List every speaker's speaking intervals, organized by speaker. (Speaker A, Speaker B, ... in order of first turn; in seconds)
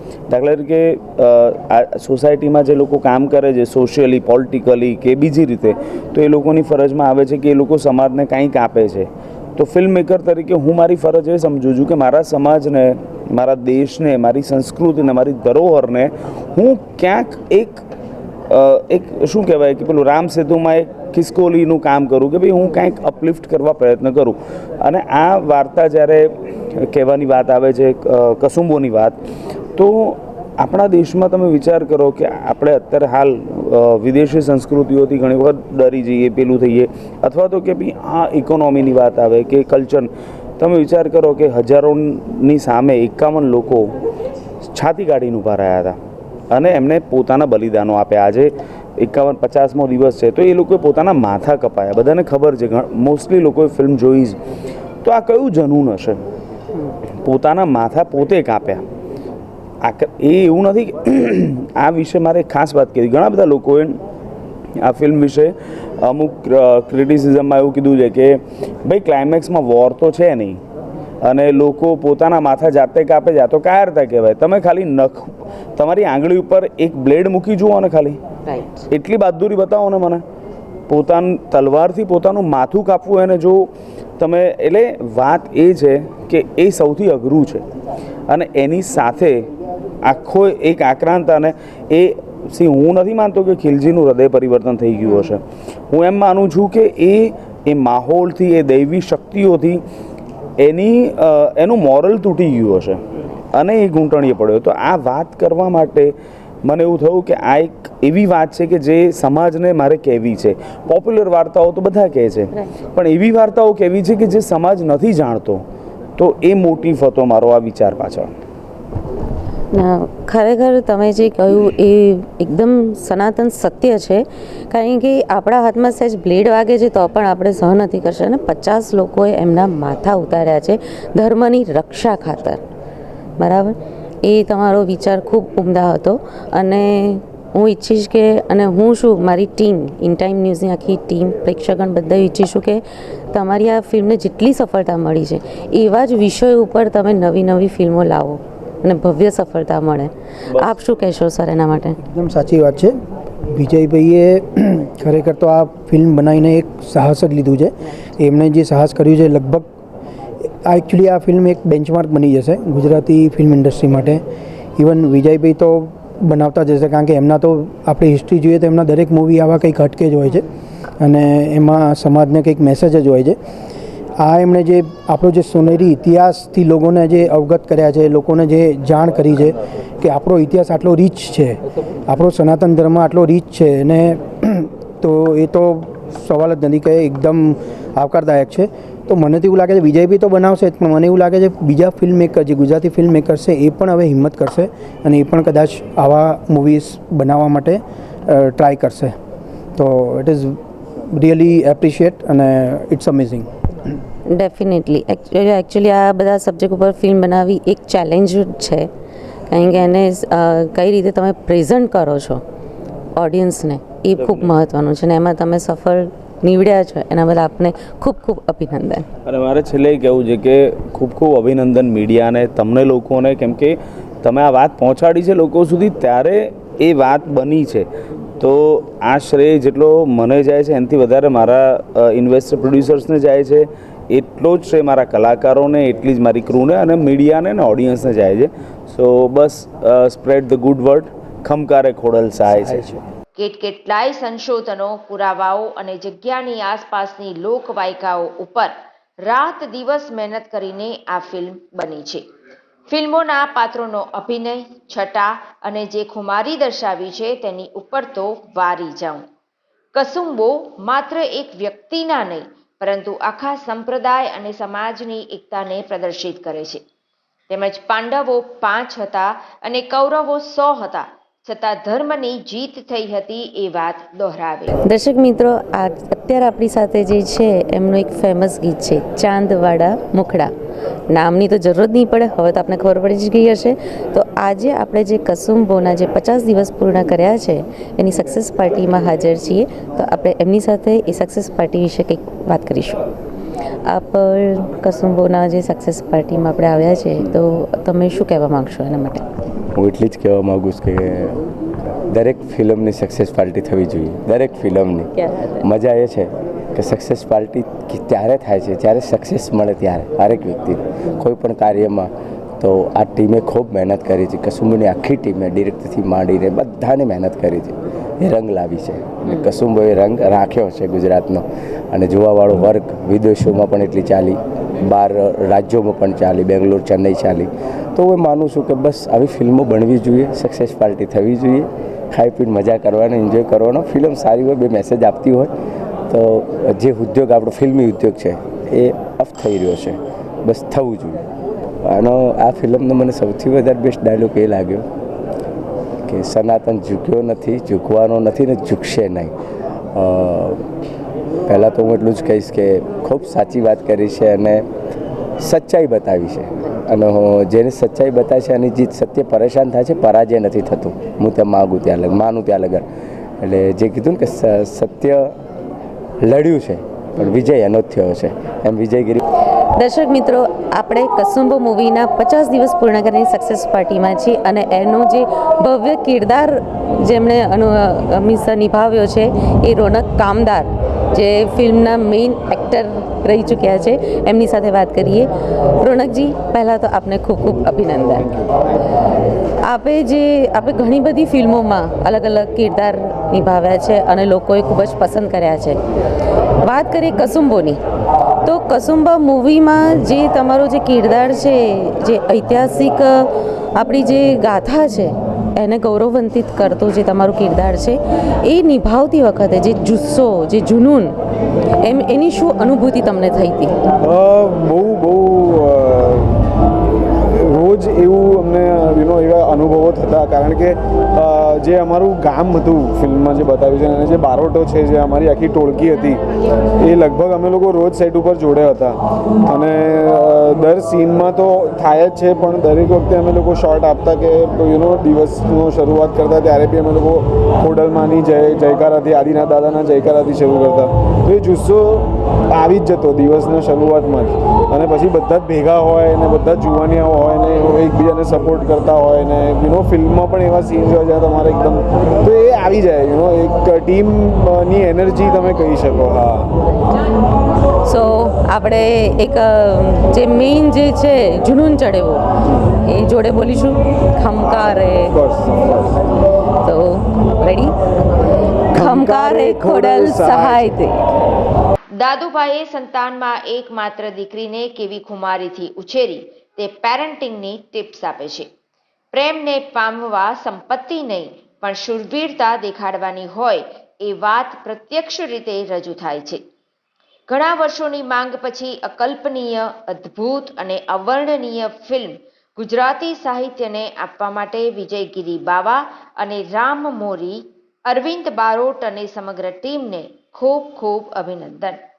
Speaker A: 0.3-17.8, 18.5-29.2, 29.8-43.9, 44.7-46.0, 46.5-54.4, 55.0-56.2, 57.2-58.8, 59.8-64.0, 64.8-70.6, 71.2-78.2, 78.9-80.2, 80.9-83.7, 84.2-87.7, 88.3-89.5, 90.1-99.8, 100.6-103.0, 103.5-106.1, 106.7-115.7, 116.2-118.3, 214.2-214.5, 219.2-227.9, 228.4-243.0
Speaker B: 78.5-78.9, 119.7-132.6, 133.4-152.0, 204.3-208.9, 209.5-212.4, 213.2-219.1, 274.8-280.5, 281.1-293.0, 293.9-299.2, 305.2-305.6, 369.8-388.3, 389.6-395.8, 396.6-397.8, 398.4-411.2, 411.8-413.8, 457.9-462.2, 462.8-465.1, 466.6-467.8, 468.7-471.0
Speaker C: 152.0-152.9, 153.5-159.7, 160.7-164.2, 164.8-170.4, 171.0-173.4, 174.2-199.1, 199.8-200.6, 201.2-203.5, 242.6-243.0
Speaker D: 243.4-252.3, 252.9-259.3, 259.9-266.8, 267.5-274.7, 472.0-478.5, 479.1-486.4, 487.3-501.8
Speaker E: 299.8-301.4, 302.1-335.5, 336.1-341.2, 341.8-344.9, 346.1-349.3, 349.9-350.6, 351.5-354.7, 355.4-362.9, 363.4-365.4, 366.2-369.2
Speaker F: 414.0-416.4, 417.3-426.2, 426.8-456.5, 465.1-465.9, 468.7-470.7